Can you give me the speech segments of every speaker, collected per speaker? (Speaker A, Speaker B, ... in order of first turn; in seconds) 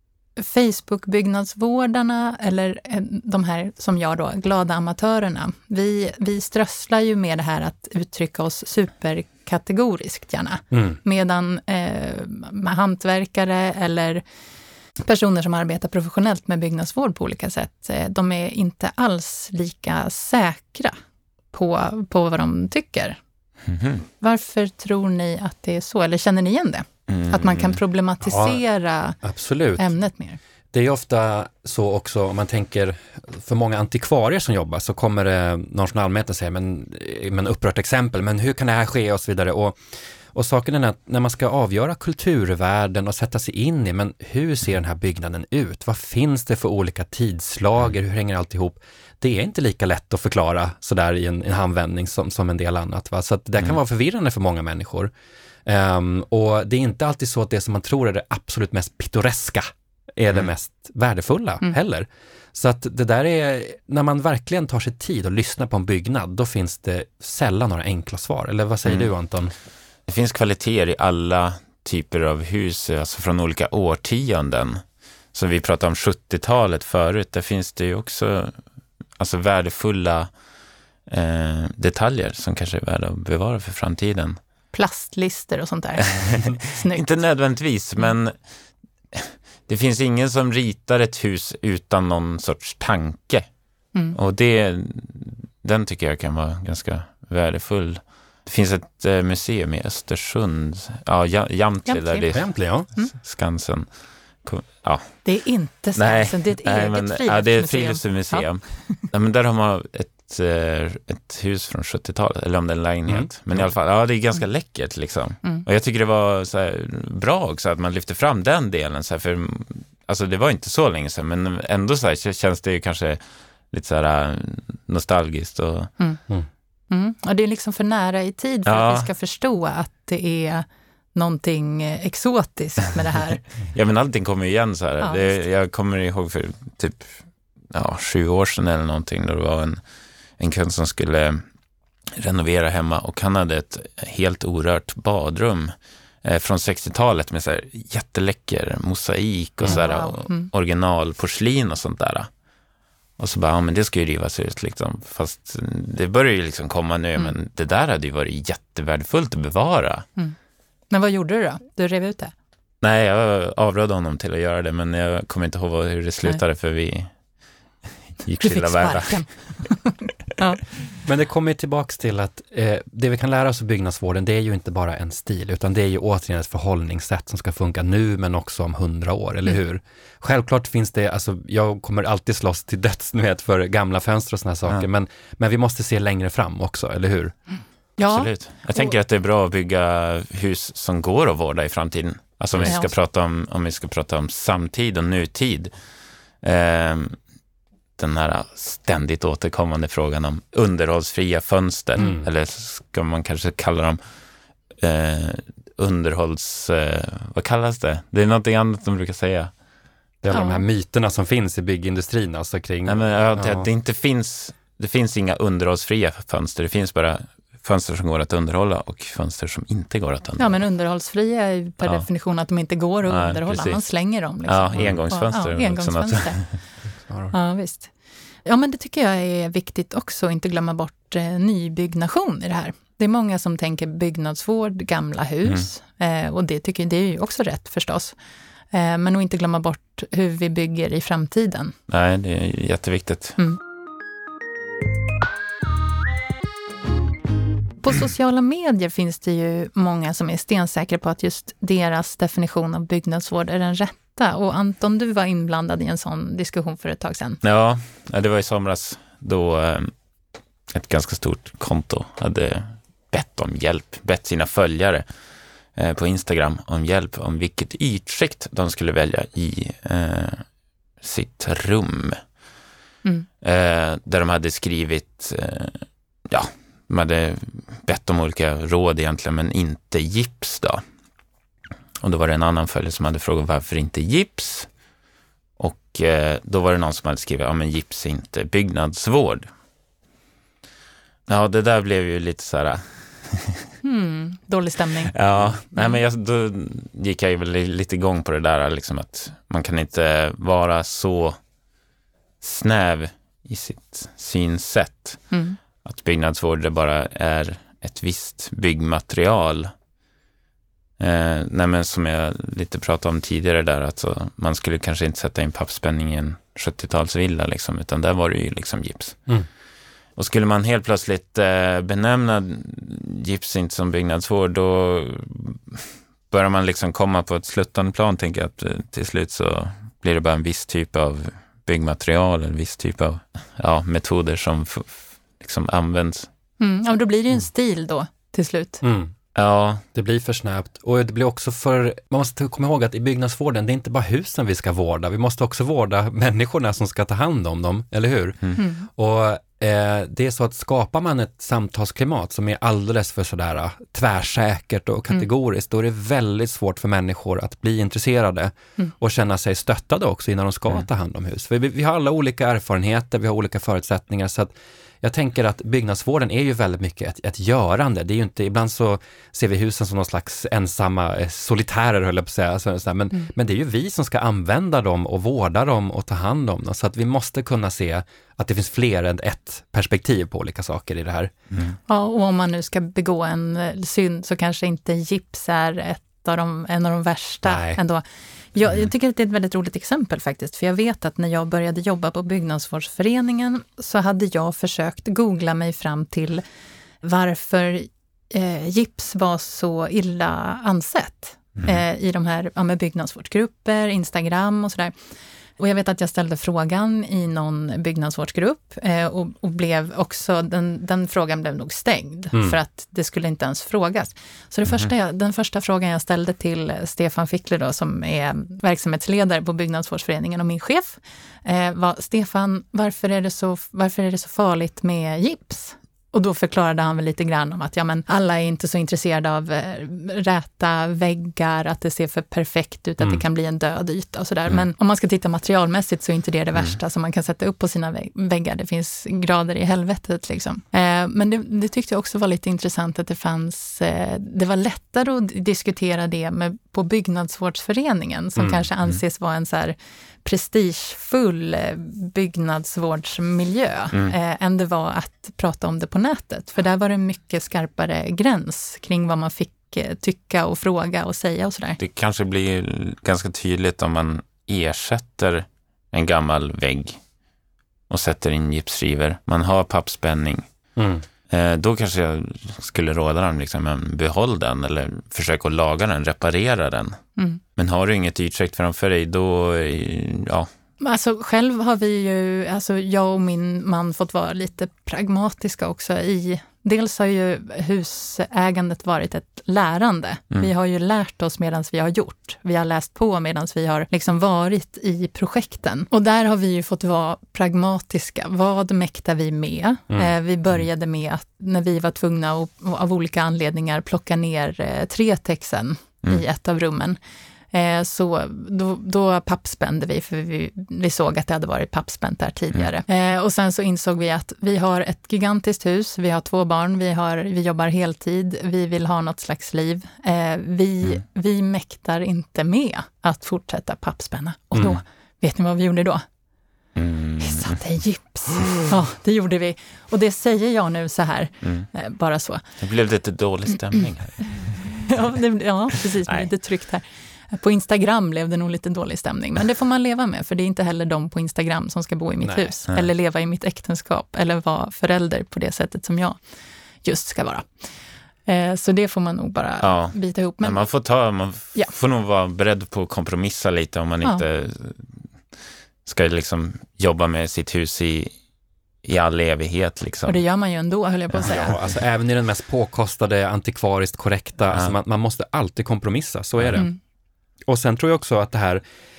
Speaker A: 0.4-14.2, 15.0-21.0, 21.5-23.2, 24.2-29.2, 29.8-30.4, 84.7-87.1, 101.9-102.3, 105.2-109.0, 126.9-133.4, 135.0-135.4, 149.7-150.5, 160.9-162.3, 168.4-170.6, 188.0-188.9, 192.7-192.9, 210.3-210.7, 220.4-226.6, 227.3-227.9, 228.4-238.2, 238.7-241.7, 247.8-257.4, 293.8-295.2, 305.3-305.6, 336.6-338.8, 348.6-348.9, 381.9-396.4, 397.0-404.9, 405.6-461.8, 480.8-507.0, 507.5-526.0, 527.2-532.4, 534.4-546.2, 546.8-547.5, 548.3-550.7, 560.1-561.5
Speaker B: 10.7-11.0, 28.2-28.6, 29.2-29.9, 30.7-39.8, 40.3-55.1, 55.7-69.5, 102.3-102.9, 113.1-113.7, 171.1-187.4, 210.2-213.7, 227.0-227.3, 338.8-339.1, 339.9-381.4, 387.4-387.8, 412.3-412.6, 448.4-448.6, 470.8-471.1, 524.5-524.8, 542.2-542.5, 561.2-566.7, 567.5-568.6
Speaker C: 23.7-24.1, 27.1-27.8, 68.8-69.1, 70.1-74.8, 75.3-78.6, 79.2-80.3, 81.1-84.4, 86.0-88.4, 89.1-93.5, 94.1-102.5, 103.1-105.3, 106.0-125.9, 128.7-129.1, 133.7-139.8, 140.4-141.4, 142.2-152.3, 153.2-160.1, 162.8-167.1, 167.8-169.4, 188.1-195.7, 196.4-197.2, 198.0-204.0, 204.8-209.5, 212.8-220.7, 223.1-226.6, 241.9-243.4, 257.4-259.9, 260.7-265.1, 265.8-270.5, 271.0-272.2, 273.4-280.8, 282.0-284.7, 285.6-289.5, 291.3-293.7, 295.1-301.4, 302.4-305.3, 305.8-309.7, 311.0-319.2, 320.2-336.3, 339.4-339.8, 461.8-467.0, 467.9-470.5, 471.3-480.5, 526.8-527.6, 531.4-531.7, 532.6-534.9, 549.6-555.0, 555.9-558.1, 558.8-560.2, 566.4-566.6